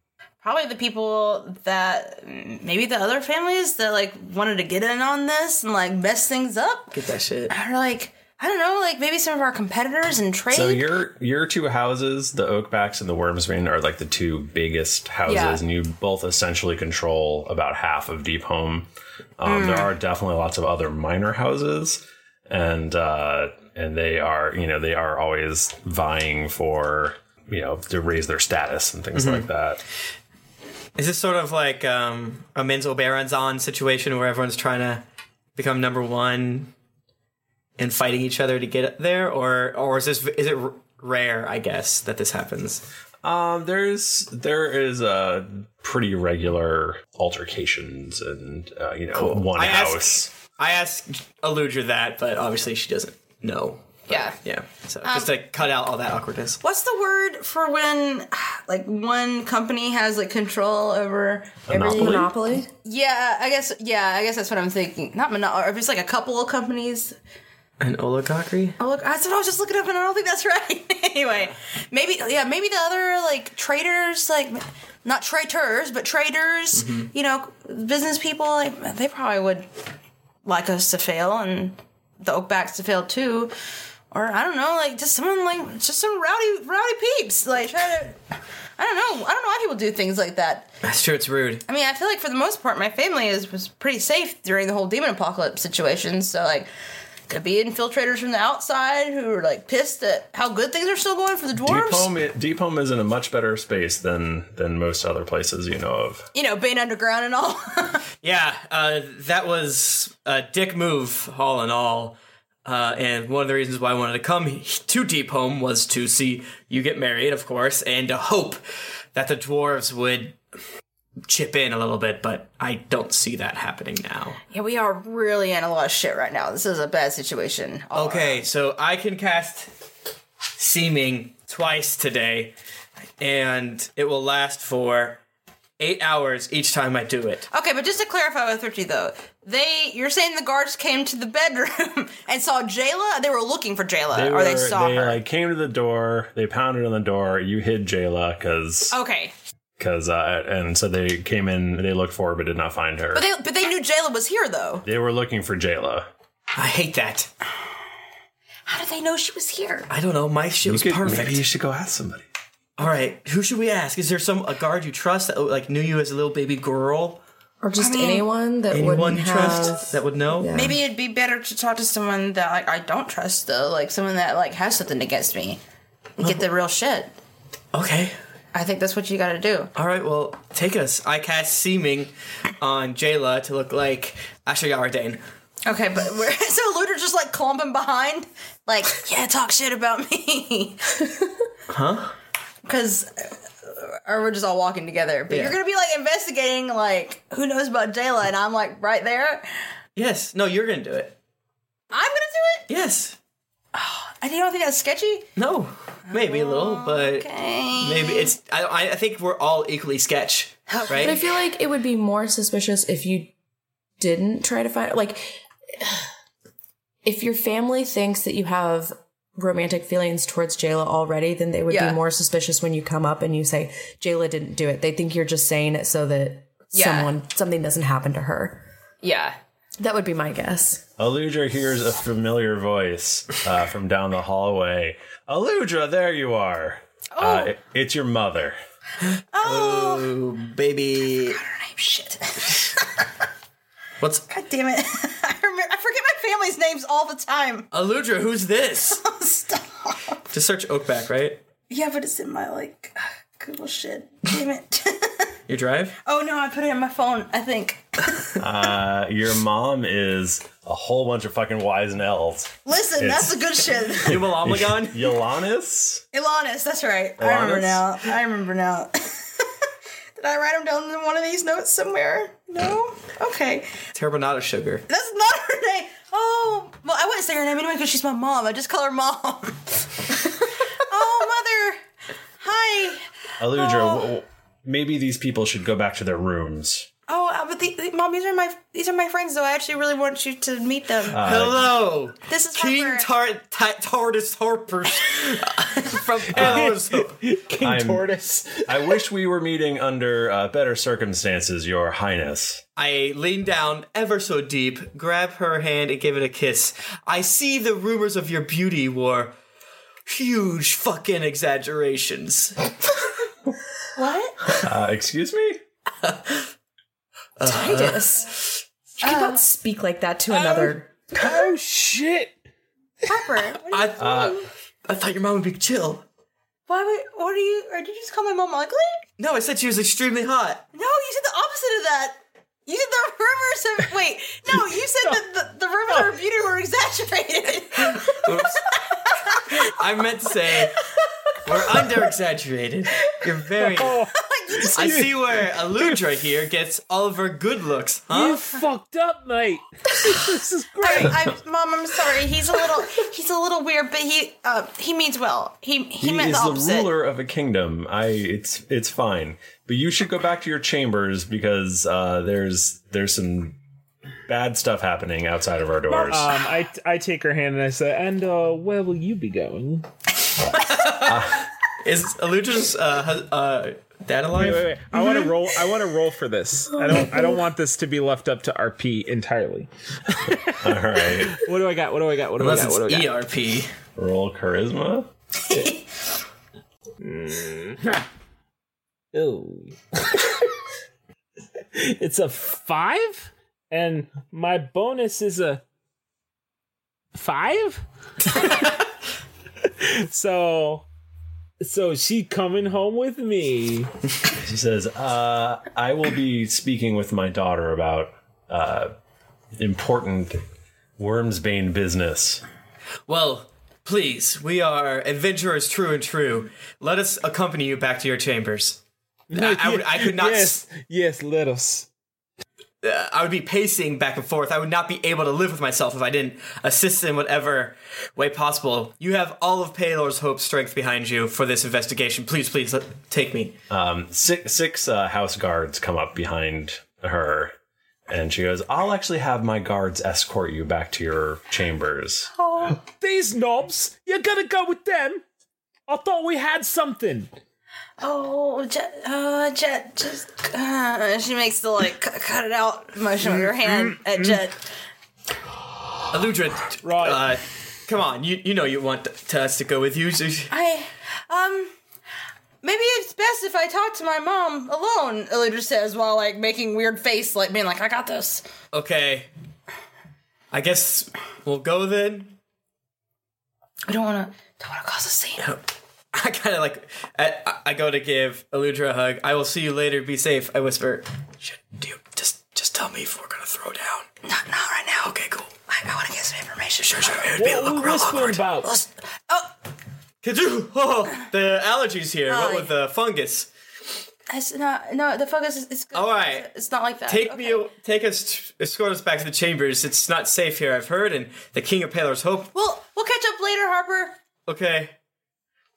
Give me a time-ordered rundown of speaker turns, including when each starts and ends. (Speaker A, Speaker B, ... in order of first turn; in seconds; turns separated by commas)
Speaker A: 0.4-6.9, Speaker B: 6.9-7.5, Speaker A: 7.5-10.8, Speaker C: 10.5-18.9, Speaker A: 15.2-15.6, Speaker C: 19.4-29.8, Speaker A: 19.4-19.9, Speaker B: 29.1-29.5, Speaker B: 30.9-35.0, Speaker B: 35.5-36.7, Speaker B: 37.8-42.8, Speaker C: 43.2-50.3, Speaker B: 49.1-56.6, Speaker A: 54.1-54.4, Speaker A: 55.0-55.3, Speaker A: 56.6-62.1, Speaker C: 61.7-62.3, Speaker D: 61.7-62.7, Speaker A: 62.8-67.2, Speaker B: 67.8-68.8, Speaker A: 68.8-79.7, Speaker B: 76.8-77.1, Speaker A: 80.4-83.5, Speaker A: 84.1-88.2, Speaker A: 88.8-90.7, Speaker B: 90.8-91.6, Speaker A: 91.7-96.7, Speaker A: 97.3-102.1, Speaker C: 101.6-106.2, Speaker A: 106.3-108.0, Speaker B: 108.2-118.6, Speaker B: 119.1-120.4, Speaker B: 121.3-124.4, Speaker A: 124.5-128.4, Speaker B: 127.9-129.7, Speaker B: 130.6-132.5, Speaker B: 133.2-135.2, Speaker B: 135.8-137.5, Speaker A: 137.5-145.2, Speaker C: 144.1-148.9, Speaker A: 148.9-149.3, Speaker C: 149.8-153.3, Speaker A: 153.1-154.8, Speaker C: 154.8-156.1, Speaker B: 156.5-157.3, Speaker A: 158.7-159.9, Speaker B: 159.9-161.4, Speaker C: 160.6-162.2, Speaker B: 162.8-167.2, Speaker D: 167.6-170.8, Speaker A: 167.8-168.3, Speaker B: 168.7-170.5, Speaker A: 170.5-175.6, Speaker A: 176.2-177.1, Speaker B: 177.7-178.2, Speaker A: 178.5-179.7, Speaker B: 179.7-185.2, Speaker A: 185.7-190.9, Speaker B: 191.7-192.1, Speaker A: 192.6-199.7, Speaker B: 195.3-195.6, Speaker B: 199.9-201.1, Speaker A: 201.9-202.7, Speaker B: 202.7-203.2, Speaker A: 203.7-205.3, Speaker B: 205.4-211.2, Speaker A: 206.1-208.3, Speaker A: 210.7-211.3, Speaker D: 211.0-213.3, Speaker D: 214.0-216.0, Speaker D: 217.0-228.7, Speaker A: 221.7-222.0, Speaker A: 226.7-227.1, Speaker A: 229.0-229.3, Speaker D: 229.8-230.8, Speaker C: 231.0-238.6, Speaker A: 237.1-237.5, Speaker A: 239.3-240.1, Speaker B: 239.4-241.4, Speaker A: 241.2-243.0, Speaker B: 244.0-244.2, Speaker A: 244.3-247.7, Speaker B: 247.7-249.0, Speaker A: 248.8-250.2, Speaker B: 250.3-251.4, Speaker A: 251.7-255.3, Speaker B: 255.5-255.9, Speaker A: 256.0-258.2, Speaker C: 258.4-263.4, Speaker A: 262.6-264.2, Speaker B: 264.0-265.1, Speaker C: 264.0-266.0, Speaker A: 266.1-269.5, Speaker C: 267.2-267.9, Speaker A: 270.1-273.8, Speaker B: 273.9-274.8, Speaker A: 274.9-281.8, Speaker A: 282.4-284.1, Speaker C: 283.4-286.9, Speaker A: 287.1-291.2, Speaker C: 291.1-291.7, Speaker B: 291.2-297.2, Speaker A: 292.3-293.1, Speaker E: 296.3-299.0, Speaker C: 296.4-296.7, Speaker C: 297.6-298.1, Speaker C: 298.6-302.6, Speaker B: 302.8-309.3, Speaker B: 310.1-312.6, Speaker A: 313.9-314.4, Speaker C: 314.5-315.6, Speaker B: 316.0-316.4, Speaker B: 317.4-318.4, Speaker A: 317.4-318.3, Speaker D: 319.0-321.4, Speaker A: 319.0-319.4, Speaker E: 320.3-322.4, Speaker A: 323.1-324.5, Speaker B: 323.7-324.2, Speaker C: 324.0-324.4, Speaker B: 324.9-326.0, Speaker A: 326.7-329.0, Speaker B: 329.2-330.6, Speaker A: 330.7-339.5, Speaker B: 338.0-338.6, Speaker B: 339.6-340.8, Speaker B: 341.4-344.0, Speaker E: 343.6-345.2, Speaker A: 344.2-345.0, Speaker B: 344.7-348.5, Speaker E: 348.1-351.3, Speaker A: 350.8-356.9, Speaker C: 356.0-363.6, Speaker C: 364.3-366.4, Speaker A: 365.9-366.1, Speaker E: 366.1-369.9, Speaker B: 370.6-374.7, Speaker C: 371.0-371.4, Speaker E: 374.3-383.1, Speaker D: 376.7-377.4, Speaker C: 380.6-381.4, Speaker B: 382.4-383.7, Speaker C: 383.9-385.1, Speaker A: 385.4-385.9, Speaker E: 387.0-388.1, Speaker E: 389.1-390.4, Speaker E: 391.8-395.6, Speaker E: 397.1-398.6, Speaker E: 399.8-400.9, Speaker E: 401.6-403.9, Speaker C: 404.4-408.9, Speaker C: 409.6-410.4, Speaker C: 411.0-412.4, Speaker B: 413.1-418.8, Speaker E: 419.3-421.9, Speaker B: 419.3-420.6, Speaker B: 422.8-433.6, Speaker C: 433.7-437.5, Speaker C: 438.1-442.3, Speaker A: 442.3-442.8, Speaker E: 442.7-445.2, Speaker E: 445.9-447.3, Speaker A: 448.0-454.6, Speaker E: 453.4-454.3, Speaker B: 456.1-460.5, Speaker E: 456.8-457.2, Speaker A: 460.5-461.7, Speaker A: 462.6-468.4, Speaker B: 468.7-469.3, Speaker B: 470.5-472.4, Speaker A: 473.9-475.4, Speaker B: 475.4-484.1, Speaker A: 484.2-485.1, Speaker B: 485.1-485.5, Speaker A: 485.7-487.3, Speaker B: 486.9-488.4, Speaker E: 487.4-488.7, Speaker A: 488.6-489.5, Speaker B: 490.2-493.5, Speaker A: 492.3-492.7, Speaker A: 494.3-497.6, Speaker B: 495.9-496.5, Speaker B: 497.1-502.5, Speaker A: 502.5-504.1, Speaker B: 504.4-504.9